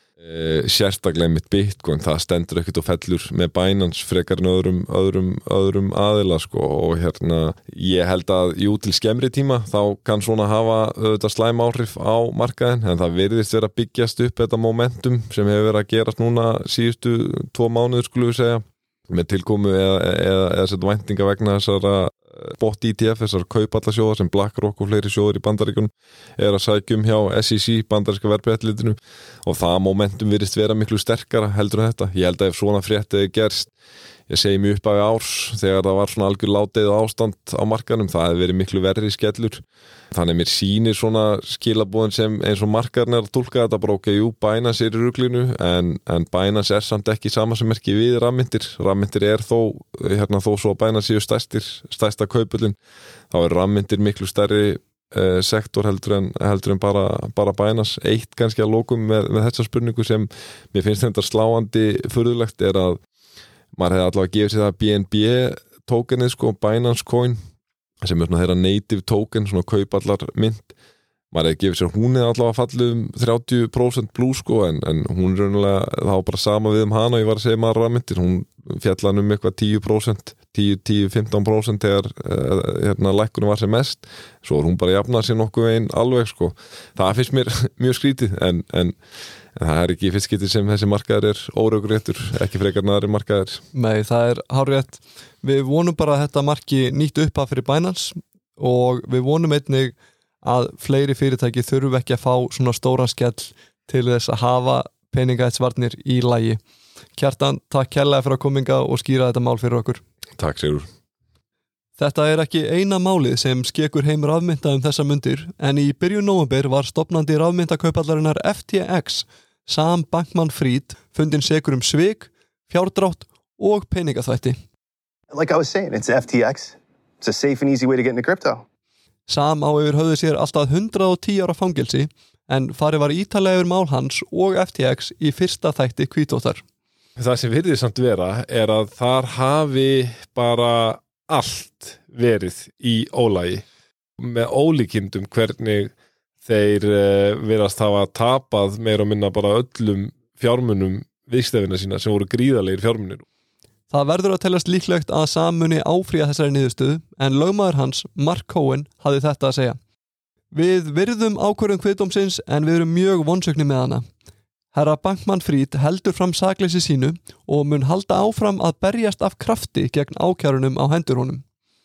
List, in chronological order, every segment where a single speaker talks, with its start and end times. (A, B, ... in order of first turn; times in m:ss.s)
0:00.2-0:33.7 A
0:34.3-0:52.8 A
0:53.3-1:03.0 A
1:03.8-1:07.4 A
1:08.0-1:10.7 A
1:11.3-1:29.0 A
1:29.6-1:33.6 A
1:33.7-1:46.6 B
1:47.1-1:50.0 B
1:50.4-1:50.8 A
1:52.0-2:04.6 B
2:05.3-2:08.6 C
2:09.3-2:16.6 B
2:17.2-2:23.6 A
2:24.2-2:25.9 A
2:26.4-2:33.2 A
2:33.9-2:39.8 B
2:40.5-2:44.0 B
2:44.7-2:51.4 B